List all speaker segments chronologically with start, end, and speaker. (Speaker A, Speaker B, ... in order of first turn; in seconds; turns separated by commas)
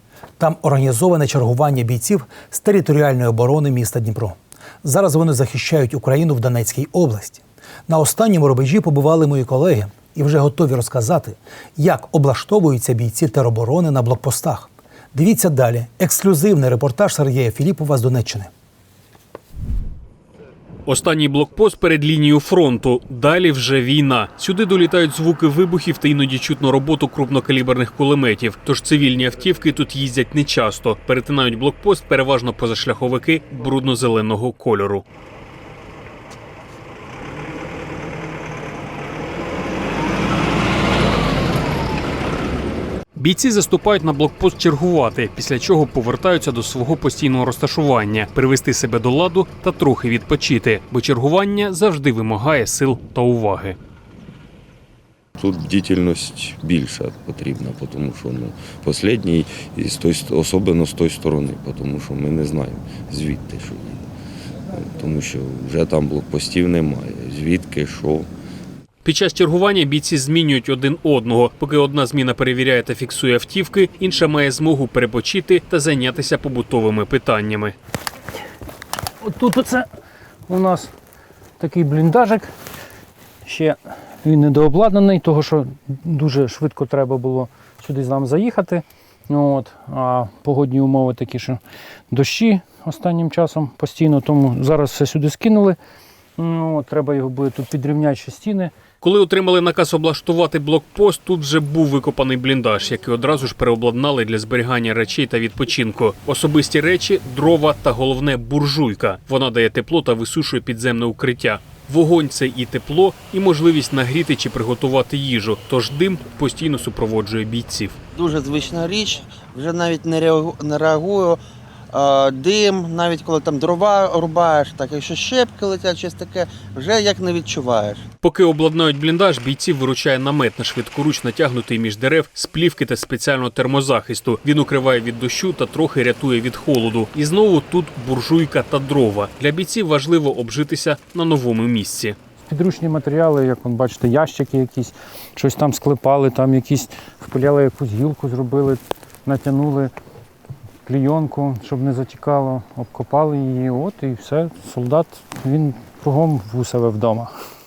Speaker A: 0.4-18.5, Speaker B: 20.9-35.0, Speaker B: 43.1-53.8, Speaker C: 55.4-64.0, Speaker C: 64.7-68.3, Speaker B: 69.0-77.8, Speaker D: 79.2-79.9, Speaker D: 80.5-80.9, Speaker D: 81.6-82.5, Speaker D: 83.5-95.8, Speaker D: 96.4-98.7, Speaker B: 99.0-118.0, Speaker E: 118.2-121.4, Speaker E: 121.9-128.1, Speaker B: 128.2-142.2, Speaker D: 142.5-149.9, Speaker D: 150.8-157.3